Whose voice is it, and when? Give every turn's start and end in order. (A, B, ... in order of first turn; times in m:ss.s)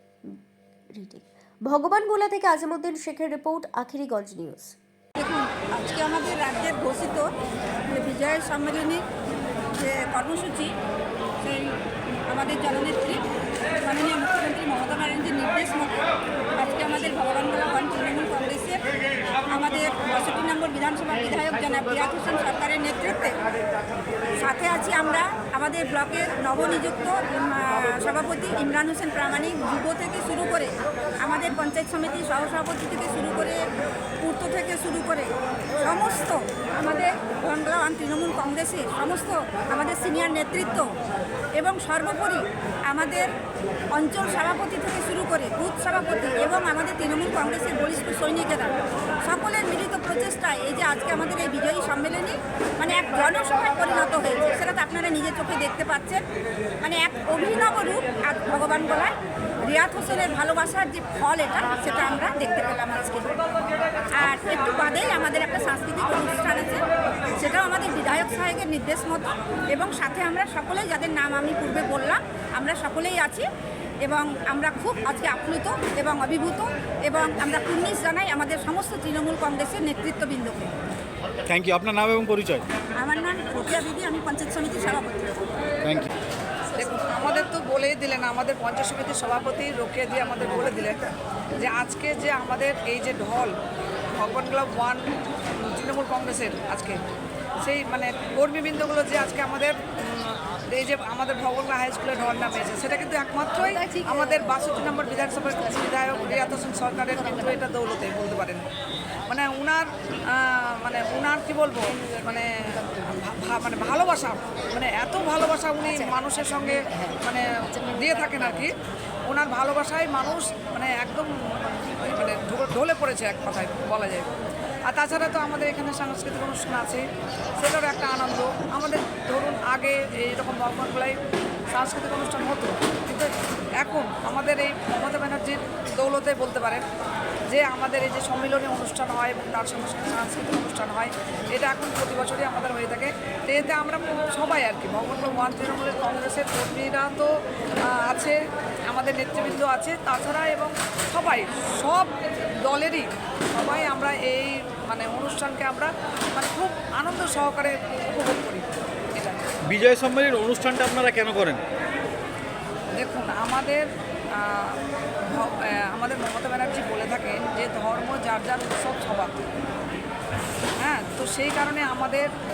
0:00.9-0:04.8 A
0:05.2-0:07.3 B
0:07.9-0:09.0 B
0:09.7-0:10.8 B
0:11.4-0:13.2 B
0:13.8-0:18.9 B
0:19.5-0:23.4 B
0:24.4-0:33.6 B
0:34.2-0:40.9 B
0:41.6-0:43.3 B
0:43.9-0:56.2 B
0:56.8-0:59.1 B
0:59.6-1:03.4 B
1:04.1-1:13.5 B
1:14.0-1:20.7 B
1:21.5-1:22.6 C
1:23.0-1:25.4 B
1:25.8-1:26.1 C
1:26.8-1:31.0 D
1:31.6-1:33.5 D
1:34.2-1:37.0 D
1:37.6-1:48.7 D
1:49.3-1:58.8 D
1:59.3-2:04.3 D
2:04.9-2:07.0 D
2:07.6-2:11.2 D
2:11.7-2:16.8 D
2:17.5-2:28.4 D
2:28.9-2:39.4 D
2:39.7-2:41.6 C
2:43.0-2:44.8 D
2:45.3-2:49.5 D
2:50.8-2:52.3 D